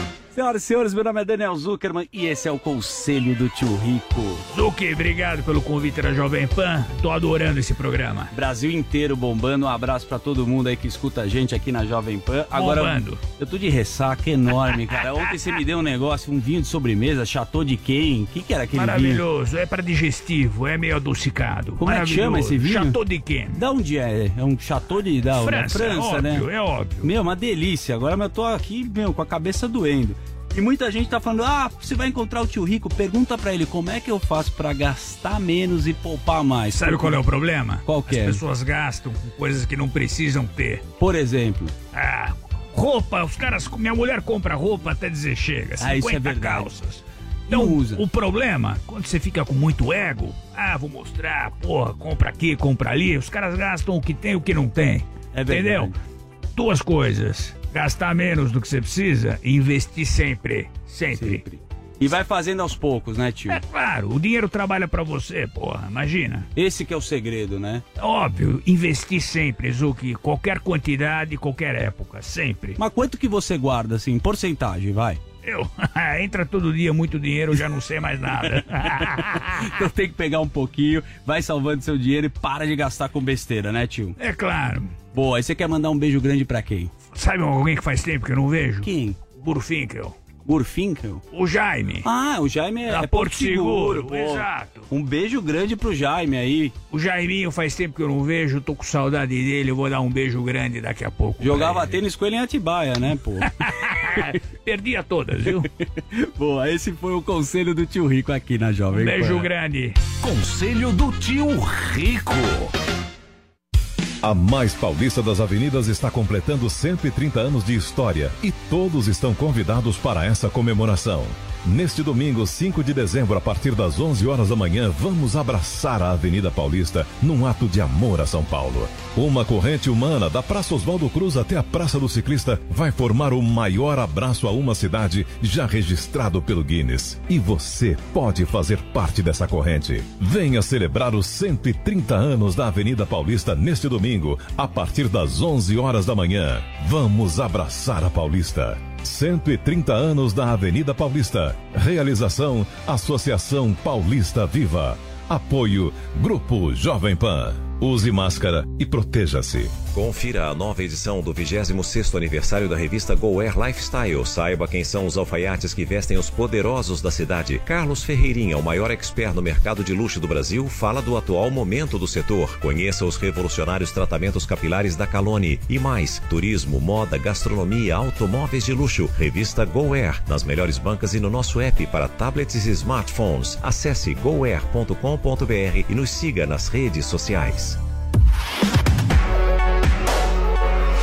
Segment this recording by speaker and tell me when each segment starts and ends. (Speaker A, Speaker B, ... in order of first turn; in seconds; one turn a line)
Speaker A: 0.3-4.5
Speaker B: 4.5-8.3
Speaker A: 8.3-19.2
Speaker B: 12.6-13.2
Speaker B: 18.8-23.6
Speaker A: 21.8-26.5
Speaker B: 25.4-27.1
Speaker A: 27.0-37.2
Speaker B: 36.8-40.9
Speaker A: 37.9-38.4
Speaker A: 41.0-41.8
Speaker B: 41.9-46.8
Speaker A: 45.8-48.0
Speaker B: 47.5-55.8
Speaker A: 55.3-56.0
Speaker B: 56.6-61.4
Speaker A: 61.1-63.6
Speaker B: 63.6-66.5
Speaker A: 66.6-67.8
Speaker B: 68.0-72.8
Speaker A: 72.8-75.2
Speaker B: 75.4-78.9
Speaker A: 78.4-78.8
Speaker A: 79.7-84.2
Speaker B: 84.2-84.9
Speaker A: 85.1-87.0
Speaker B: 87.1-88.9
Speaker A: 88.8-89.3
Speaker B: 89.4-90.2
Speaker A: 90.4-91.2
Speaker B: 91.3-92.0
Speaker A: 92.0-96.8
Speaker B: 92.9-94.9
Speaker B: 96.9-101.8
Speaker A: 101.4-103.5
Speaker B: 103.9-105.6
Speaker A: 105.3-109.5
Speaker B: 109.0-110.0
Speaker C: 114.2-159.8
Speaker D: 159.9-187.8